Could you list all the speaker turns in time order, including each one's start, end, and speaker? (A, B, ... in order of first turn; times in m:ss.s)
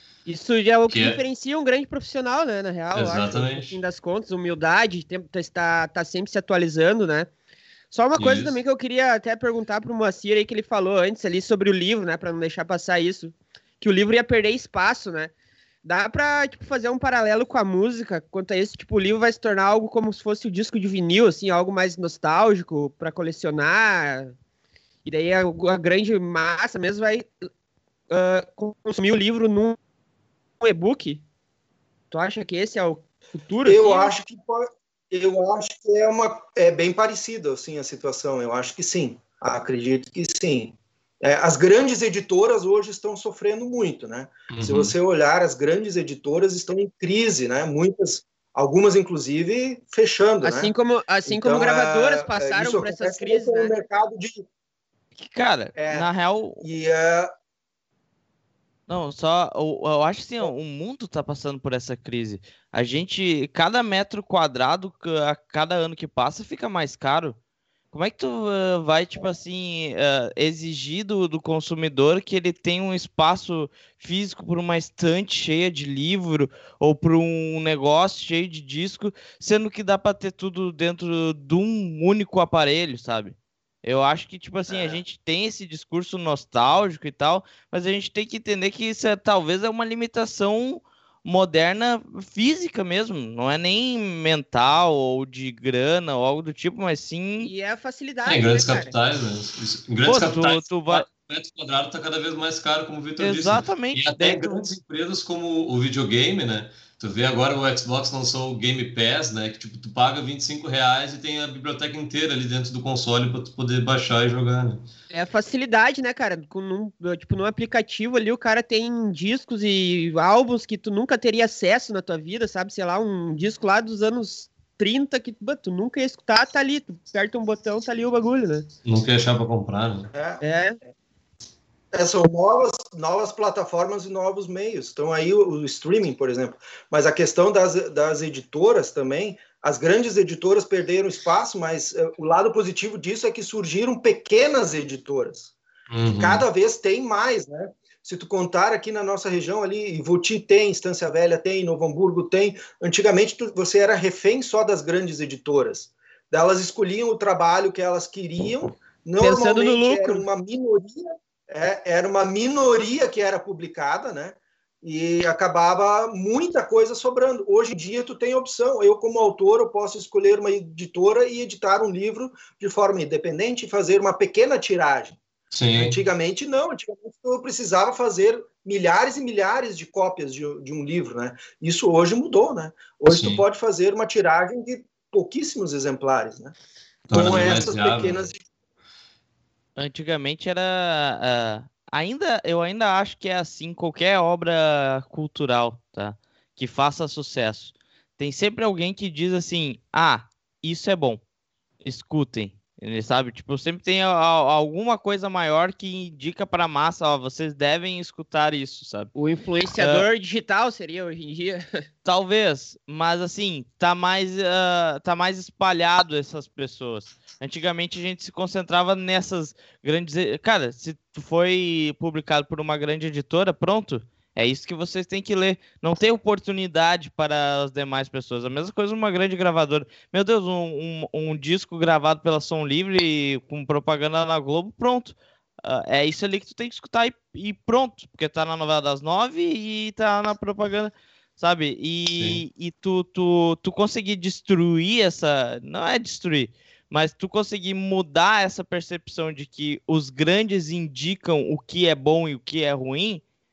0:00.3-0:07.3 A
0:00.9-0:01.2 B
0:02.9-0:03.8 B
0:07.9-0:15.3 A
0:08.2-0:08.6 B
0:15.8-0:24.3 A
0:25.0-0:27.4 A
0:28.1-0:29.8 A
0:30.6-0:31.2 A
0:32.1-0:34.1 A
0:33.6-0:50.7 C
0:44.5-0:44.9 B
0:50.4-0:53.7 A
0:51.2-0:54.4 C
0:55.2-0:56.6 D
0:55.8-0:56.1 C
0:56.6-0:57.3 C
0:58.9-1:07.4 D
1:07.9-1:37.5 D
1:24.7-1:25.0 C
1:37.4-1:38.9 A
1:38.2-1:54.8 B
1:40.0-1:41.0 D
1:43.2-1:44.6 D
1:55.1-2:08.7 A
2:08.8-2:10.1 B
2:10.1-2:10.4 C
2:10.4-2:10.8 A
2:11.9-2:25.5 C
2:25.9-2:26.4 B
2:26.2-2:55.2 C
2:39.2-2:40.2 A
2:55.5-2:56.0 B
2:55.8-3:06.5 C
3:03.1-3:03.4 B
3:07.1-3:08.3 B
3:07.1-3:08.4 C
3:09.8-3:21.2 D
3:21.8-3:29.1 D
3:29.1-3:31.8 A
3:29.7-3:30.0 D
3:32.0-4:13.2 D
4:02.2-4:02.4 B